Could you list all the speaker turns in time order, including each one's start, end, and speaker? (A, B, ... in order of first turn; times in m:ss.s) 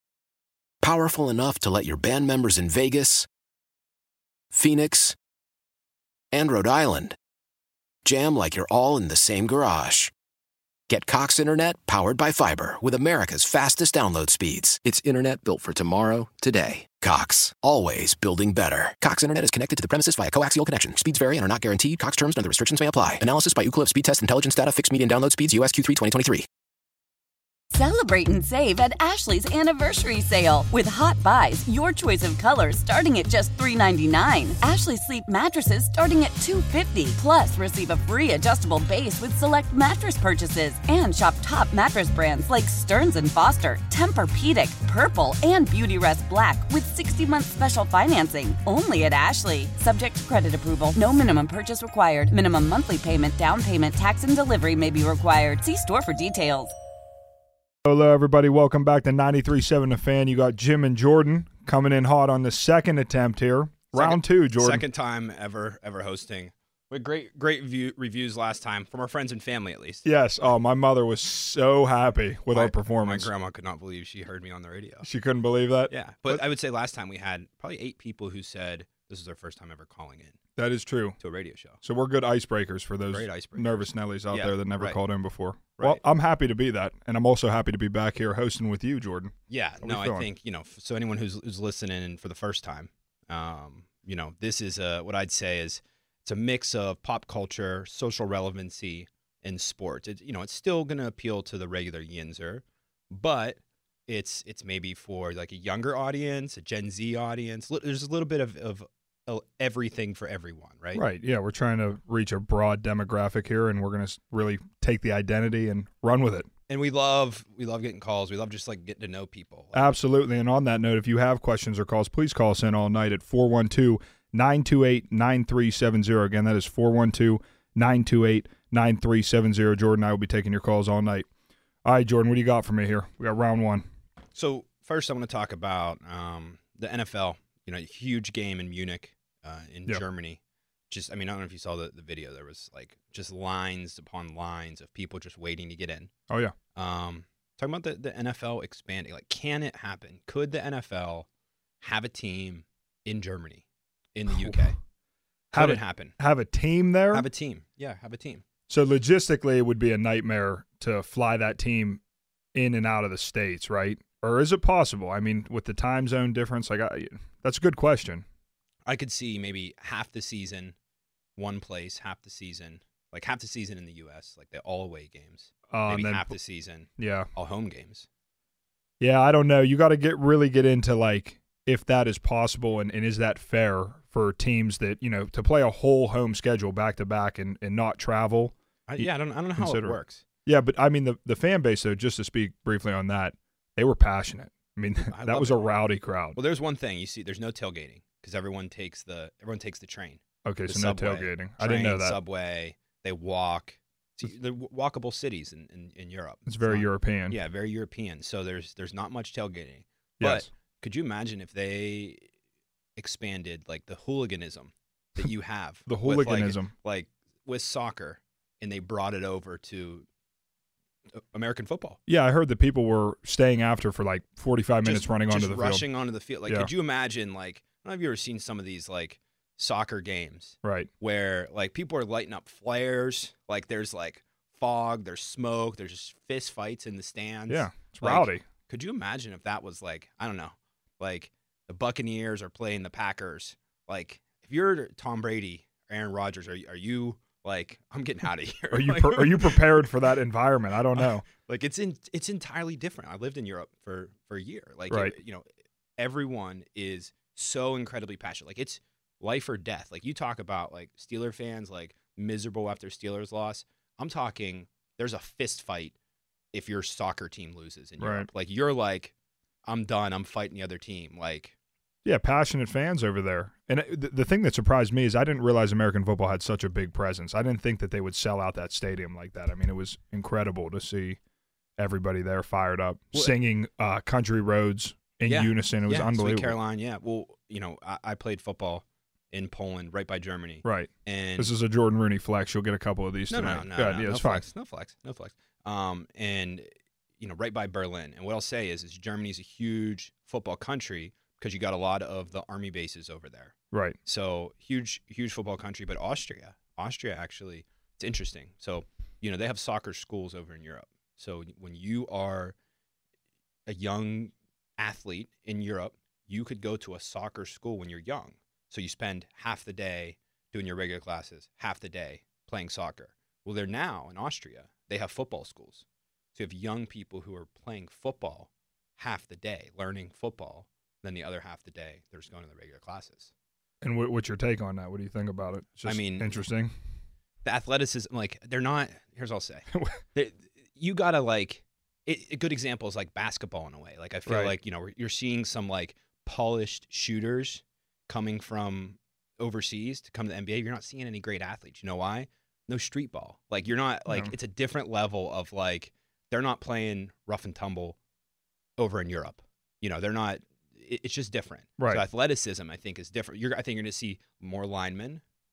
0:00.8-0:03.3 A
0:04.5-0:05.2 A
0:06.3-0:07.2 A
0:08.0-0:10.1 A
0:10.9-0:26.5 A
0:27.8-0:56.7 B
0:57.8-1:04.8 C
1:03.9-1:10.0 D
1:10.0-1:13.3 C
1:12.5-1:15.1 D
1:15.0-1:16.4 C
1:15.9-1:20.4 D
1:20.6-1:21.2 C
1:21.2-1:21.8 D
1:21.8-1:30.3 C
1:23.0-1:25.0 D
1:25.8-1:26.0 D
1:29.5-1:51.0 D
1:51.0-1:56.5 C
1:56.7-1:59.9 D
1:59.7-2:11.3 C
2:11.8-2:13.9 C
2:14.4-2:26.1 D
2:26.3-2:26.6 C
2:26.8-2:31.3 D
2:31.8-2:34.8 D
2:34.3-2:34.6 C
2:35.5-2:36.2 D
2:35.5-2:37.3 C
2:37.1-2:38.4 D
2:38.7-2:42.0 C
2:42.6-2:48.2 C
2:48.9-2:50.8 D
2:51.4-2:58.1 D
2:55.7-2:56.3 C
2:57.0-2:57.3 C
2:59.0-3:16.4 C
3:08.9-3:10.2 D
3:15.1-3:15.8 D
3:16.4-3:32.3 D
3:20.4-3:22.2 C
3:26.5-3:27.4 C
3:30.2-3:30.5 C
3:33.0-3:40.1 D
3:35.9-3:36.7 C
3:41.2-3:42.0 D
3:42.1-3:45.8 C
3:44.8-4:09.8 D
3:50.6-3:50.9 C
3:57.5-3:58.4 C
4:08.7-4:11.3 C
4:10.9-4:26.0 D
4:14.9-4:15.2 C
4:26.5-4:29.1 D
4:28.0-4:28.3 C
4:29.6-4:31.6 D
4:32.0-4:41.2 C
4:41.8-4:46.6 C
4:45.2-4:51.5 D
4:50.6-4:54.5 C
4:53.3-5:03.5 D
5:03.7-5:04.0 C
5:04.0-5:12.6 D
5:13.7-5:33.3 D
5:33.8-5:36.7 C
5:35.8-5:36.4 D
5:37.4-5:58.0 D
5:39.7-5:40.0 C
5:44.3-5:44.6 C
5:54.1-5:54.3 C
5:58.8-6:05.2 D